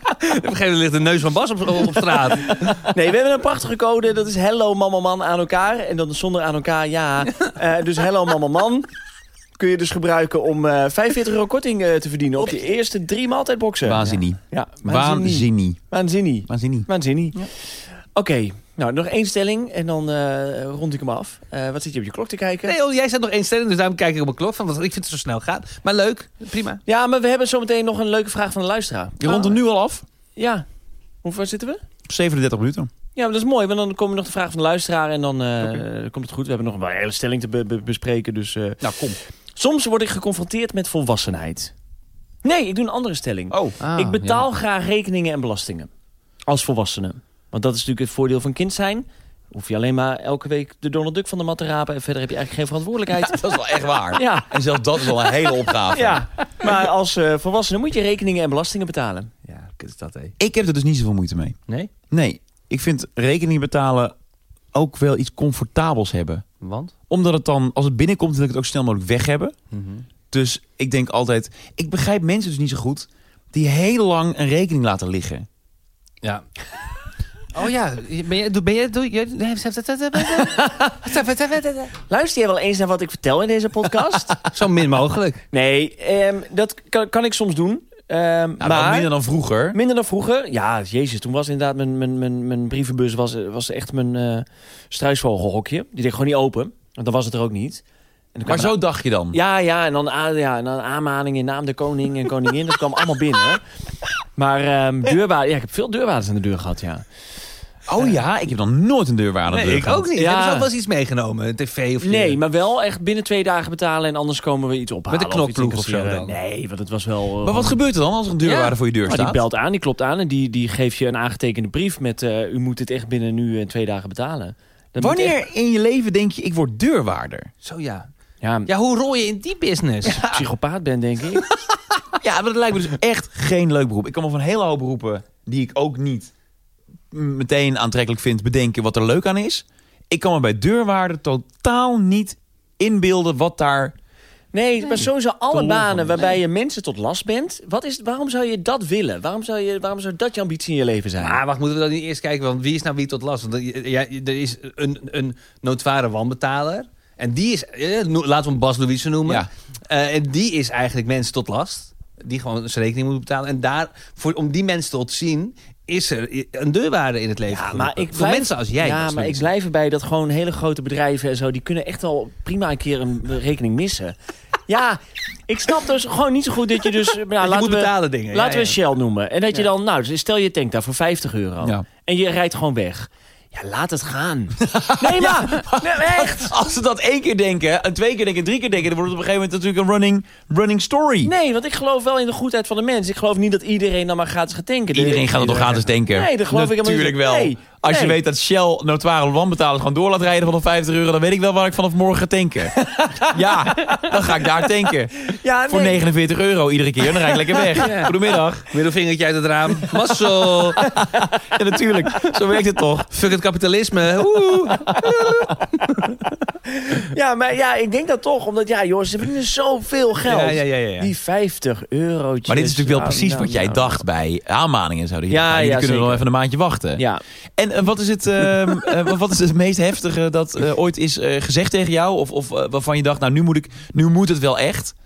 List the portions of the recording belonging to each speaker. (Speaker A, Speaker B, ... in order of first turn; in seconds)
Speaker A: 0.2-2.9, 22.7-26.8, 43.8-44.4, 59.5-60.4, 66.6-66.9, 69.7-70.0, 77.5-81.9, 84.5-85.4, 109.5-112.4, 115.1-116.4, 118.4-118.8, 127.6-128.1, 128.7-130.2, 145.5-146.4, 151.2-169.5, 177.4-178.8, 207.8-210.8, 213.1-216.2, 220.2-221.1
Speaker B: 2.5-8.9, 9.6-17.5, 18.1-22.8, 26.9-29.6, 30.4-30.6, 31.2-31.8, 33.1-38.9, 39.5-41.7, 42.4-45.9, 46.5-53.5, 54.1-54.5, 55.9-59.3, 80.4-80.8, 82.1-84.4, 85.5-89.1, 89.7-97.8, 98.3-98.8, 99.3-103.6, 104.3-107.0, 110.1-110.7, 112.0-117.8, 119.0-125.4, 128.4-128.7, 130.0-131.5, 144.5-151.4, 167.5-174.2, 174.7-186.5, 191.2-198.2, 202.8-204.2, 205.2-206.0, 207.2-208.1, 216.7-224.0, 225.3-226.2, 227.0-227.2
Speaker C: 13.8-15.8, 16.5-16.9, 29.2-30.0, 32.1-32.9, 38.8-39.2, 43.5-43.8, 53.2-56.2, 60.4-61.5, 62.1-64.1, 64.7-66.4, 67.1-69.5, 70.3-75.5, 88.6-89.8, 98.5-99.4, 107.9-110.1, 117.4-119.4, 125.0-127.5, 132.2-136.3, 137.1-143.9, 184.6-191.3, 194.9-208.7, 210.8-213.1, 222.5-227.0, 227.6-234.9